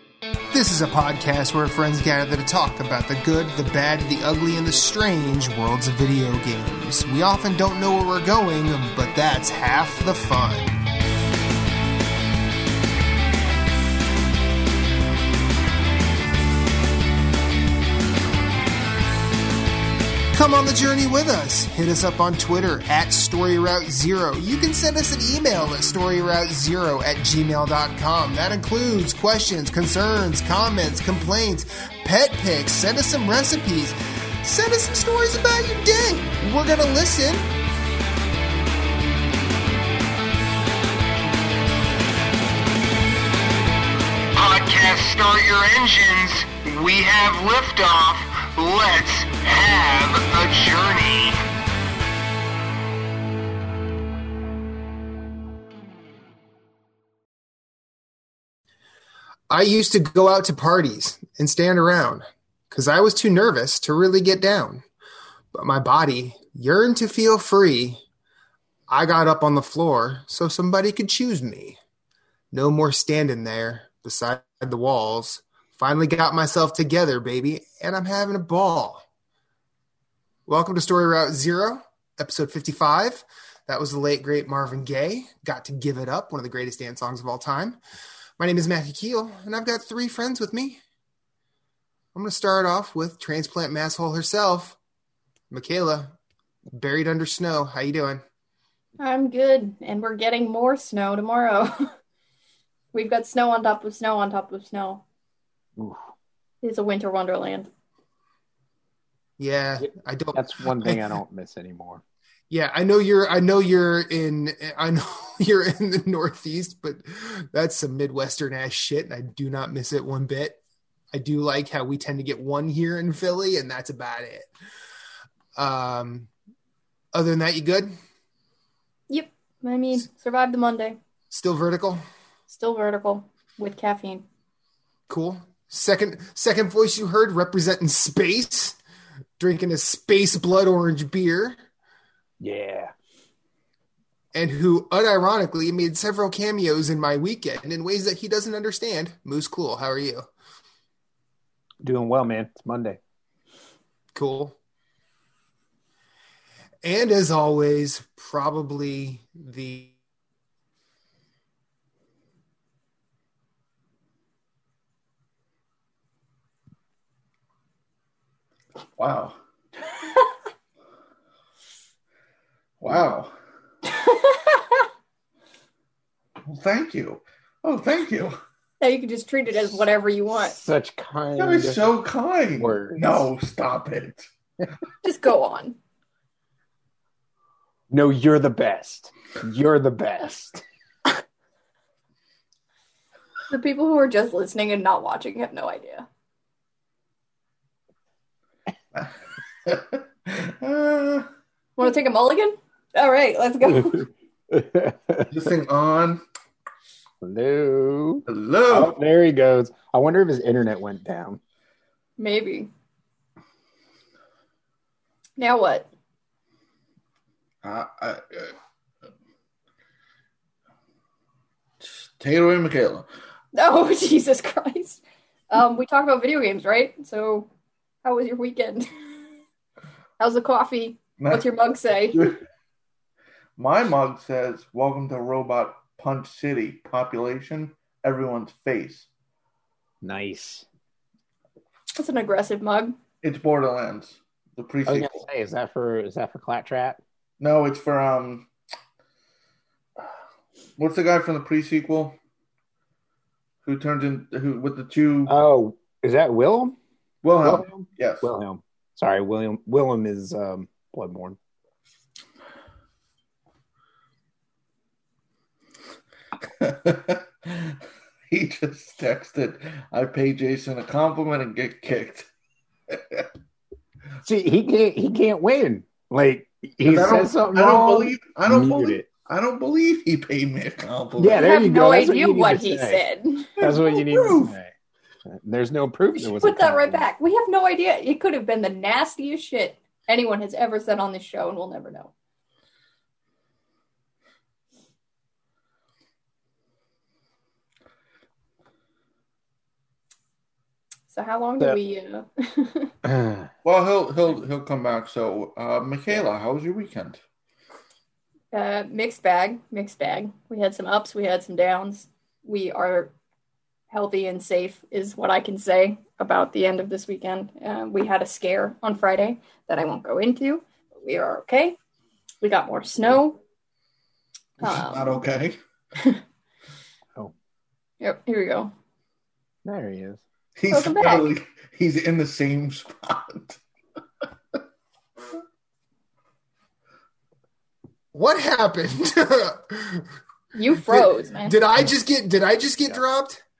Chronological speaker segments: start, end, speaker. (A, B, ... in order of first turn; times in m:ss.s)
0:00.5-0:10.8 A
0:20.3-0:37.5 A
0:44.3-0:51.4 B
0:59.5-1:04.8 A
1:05.5-1:08.0 A
1:08.9-1:11.8 A
1:12.5-1:19.0 A
1:20.5-1:27.8 A
1:28.4-1:30.8 A
1:32.1-1:34.8 A
1:35.5-1:36.1 A
1:36.7-1:38.2 A
1:39.0-1:41.9 C
1:42.9-1:45.0 C
1:46.6-1:47.7 C
1:49.4-1:51.0 A
1:49.8-1:52.0 D
1:52.5-2:00.6 A
2:01.1-2:04.5 A
2:05.6-2:06.3 A
2:07.1-2:07.9 A
2:09.1-2:11.0 C
2:11.3-2:12.0 A
2:12.5-2:14.2 C
2:15.1-2:18.8 A
2:19.4-2:21.6 A
2:22.4-2:22.9 D
2:24.3-2:30.3 A
2:31.8-2:33.0 D
2:34.1-2:34.6 A
2:36.8-2:39.9 A
2:49.0-2:49.4 E
2:52.8-2:53.3 E
2:53.9-2:54.8 C
2:56.5-2:58.4 E
2:58.8-3:00.6 C
3:00.4-3:01.8 D
3:01.4-3:04.3 E
3:02.6-3:03.2 D
3:05.0-3:05.8 C
3:07.9-3:10.6 D
3:13.5-3:16.1 C
3:19.6-3:21.3 E
3:21.8-3:24.1 C
3:24.5-3:25.3 D
3:25.3-3:26.2 E
3:27.2-3:31.4 D
3:28.3-3:29.0 E
3:32.2-3:32.7 C
3:35.4-3:35.9 C
3:37.6-3:38.5 E
3:41.8-3:43.1 E
3:43.5-3:47.5 C
3:48.0-3:49.2 C
3:50.2-3:52.3 C
3:51.2-3:51.4 E
3:52.1-3:52.4 E
3:53.6-3:59.1 E
4:00.0-4:00.6 D
4:02.0-4:03.0 C
4:03.2-4:05.2 E
4:04.8-4:07.0 D
4:07.4-4:08.5 E
4:10.8-4:12.2 E
4:13.6-4:15.3 E
4:15.3-4:16.7 D
4:17.2-4:18.3 E
4:17.4-4:21.4 D
4:26.6-4:27.8 E
4:28.3-4:32.3 E
4:32.9-4:33.3 E
4:34.2-4:39.0 D
4:36.8-4:41.6 E
4:41.2-4:43.0 D
4:41.3-4:43.8 C
4:43.6-4:44.7 D
4:43.6-4:44.5 E
4:45.2-4:47.0 D
4:46.1-4:52.1 C
5:01.1-5:02.9 C
5:03.1-5:03.5 D
5:03.6-5:07.2 E
5:08.5-5:13.1 C
5:13.9-5:21.8 C
5:22.4-5:23.4 C
5:24.6-5:25.6 E
5:24.6-5:25.2 C
5:28.0-5:28.7 C
5:29.6-5:30.2 D
5:30.6-5:33.6 E
5:30.7-5:31.3 C
5:38.1-5:40.1 A
5:40.5-5:41.6 C
5:40.8-5:43.4 A